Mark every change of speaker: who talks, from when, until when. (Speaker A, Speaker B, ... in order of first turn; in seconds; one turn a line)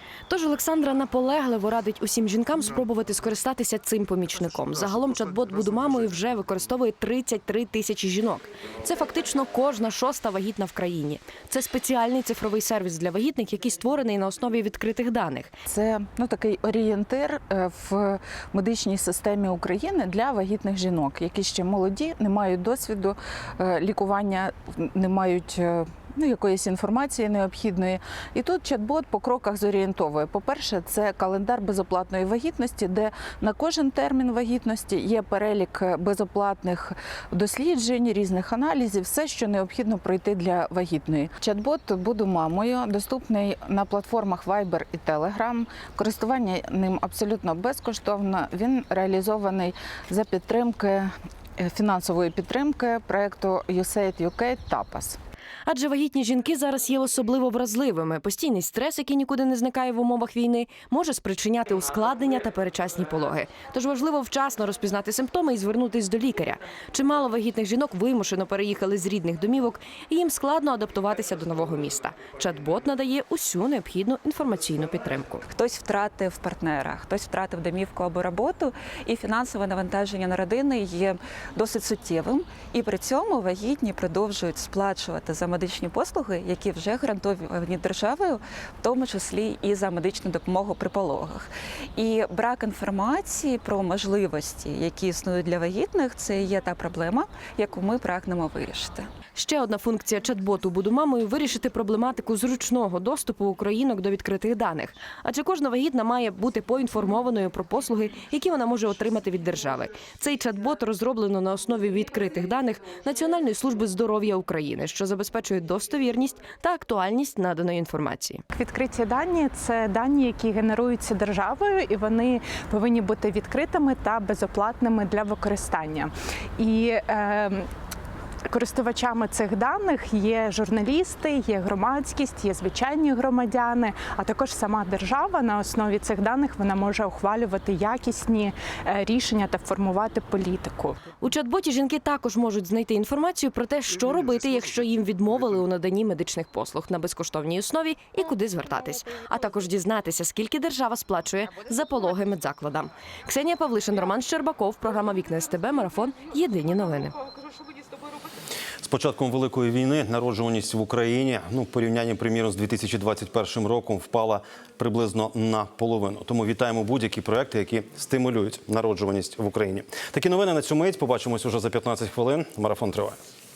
Speaker A: 0.3-15.5
Speaker B: 15.7-55.2
Speaker A: 55.7-75.4
Speaker C: 75.5-99.1
Speaker A: 99.3-118.4
Speaker D: 118.5-127.7
Speaker D: 128.5-141.1
Speaker A: 141.1-157.1
Speaker E: 158.8-173.2